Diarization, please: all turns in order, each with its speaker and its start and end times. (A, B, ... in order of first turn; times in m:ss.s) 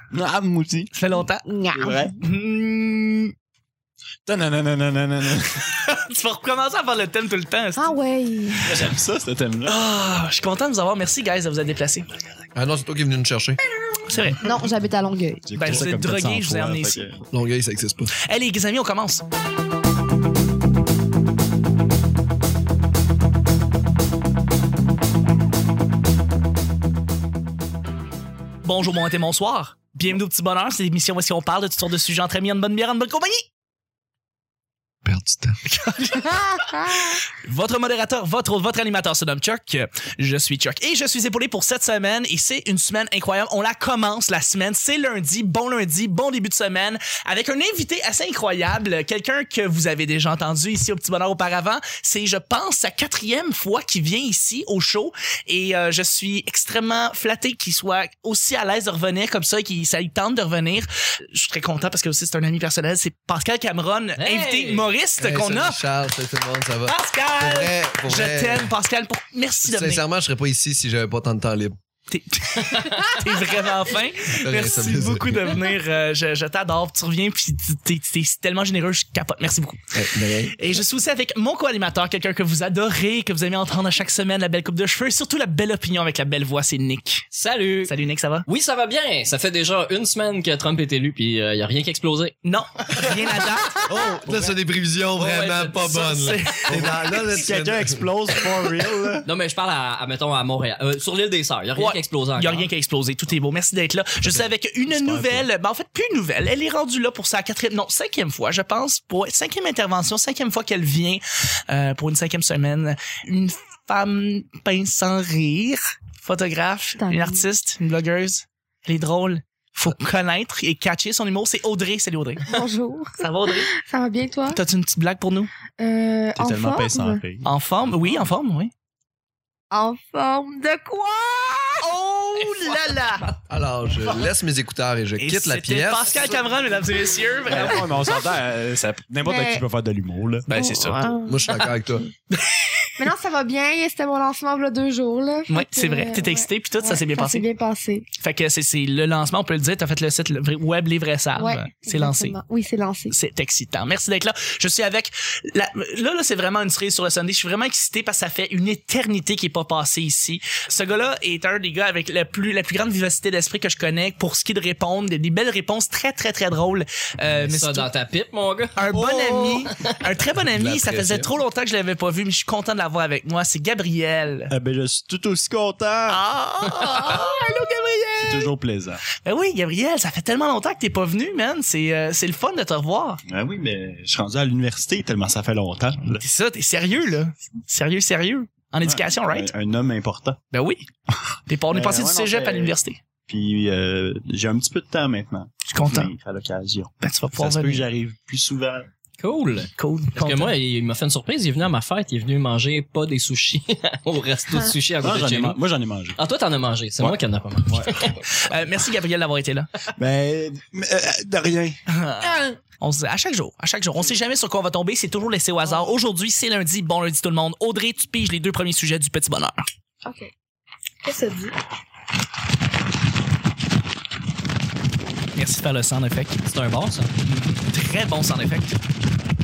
0:00.1-0:00.9 A
0:00.9-0:01.5 B
0:01.4-0:02.2 C
0:01.7-0:02.2 A
0:02.2-0:03.3 B
0:04.2-0:06.0 A
0:06.0-0:08.0 B
0:07.8-0:08.8 C
0:08.6-0:09.8 A
0:09.6-0:12.1 B
0:12.5-0:13.6 D
0:14.1-0:14.4 B
0:14.4-0:15.5 C
0:15.4-0:17.2 A
0:15.6-0:17.0 B
0:17.3-0:18.1 D
0:18.2-0:19.2 B
0:28.6-0:33.4 B
0:35.0-0:35.6 D
0:35.7-1:05.8 B
0:36.6-0:37.1 C
1:04.2-1:04.9 E
1:05.2-1:08.7 D
1:06.8-1:10.0 B
1:09.6-1:11.8 D
1:12.1-1:19.9 B
1:14.3-1:15.6 D
1:19.9-1:20.6 D
1:20.5-1:27.3 B
1:27.3-1:27.9 E
1:27.8-1:28.4 B
1:28.4-1:32.4 E
1:32.4-1:33.8 B
1:33.8-1:38.0 D
1:34.2-1:34.6 A
1:35.2-1:36.2 E
1:35.8-1:37.1 B
1:36.7-1:39.3 A
1:39.2-1:42.7 E
1:41.8-2:02.6 B
1:44.2-1:45.5 A
1:57.0-1:57.4 C
2:02.4-2:04.6 C
2:03.2-2:03.7 B
2:04.5-2:05.5 B
2:05.8-2:07.2 C
2:06.4-2:07.5 A
2:07.4-2:08.7 B
2:09.7-2:13.3 C
2:12.4-2:13.3 B
2:13.5-2:16.5 D
2:15.2-2:17.9 B
2:17.4-2:20.5 A
2:19.2-2:19.6 C
2:20.5-2:21.2 B
2:20.5-2:21.6 C
2:21.3-2:22.1 D
2:22.3-2:22.9 B
2:23.0-2:28.1 C
2:25.5-2:27.5 B
2:28.2-2:32.4 B
2:31.4-2:33.1 C
2:33.1-2:47.9 B
2:47.3-2:48.8 E
2:48.8-2:54.5 B
2:48.9-2:49.6 A
2:50.5-2:51.3 D
2:54.5-2:56.2 A
2:56.1-2:58.5 B
2:56.6-2:57.4 C
2:58.2-2:59.0 A
2:59.2-3:03.2 B
3:03.3-3:06.2 A
3:06.0-3:09.5 B
3:08.8-3:10.4 A
3:10.5-3:10.9 B
3:11.1-3:12.7 A
3:11.5-3:13.0 B
3:13.2-3:18.9 A
3:15.7-3:16.1 B
3:17.0-3:17.8 B
3:19.2-3:25.6 E
3:19.8-3:20.5 B
3:25.0-3:26.2 A
3:26.1-3:28.2 E
3:27.0-3:28.1 A
3:28.3-3:29.7 B
3:30.0-3:31.8 A
3:31.9-3:39.6 B
3:32.2-3:32.6 C
3:40.0-3:40.3 C
3:41.0-3:41.5 C
3:45.3-3:46.4 B
3:46.4-3:47.1 E
3:47.2-3:48.8 B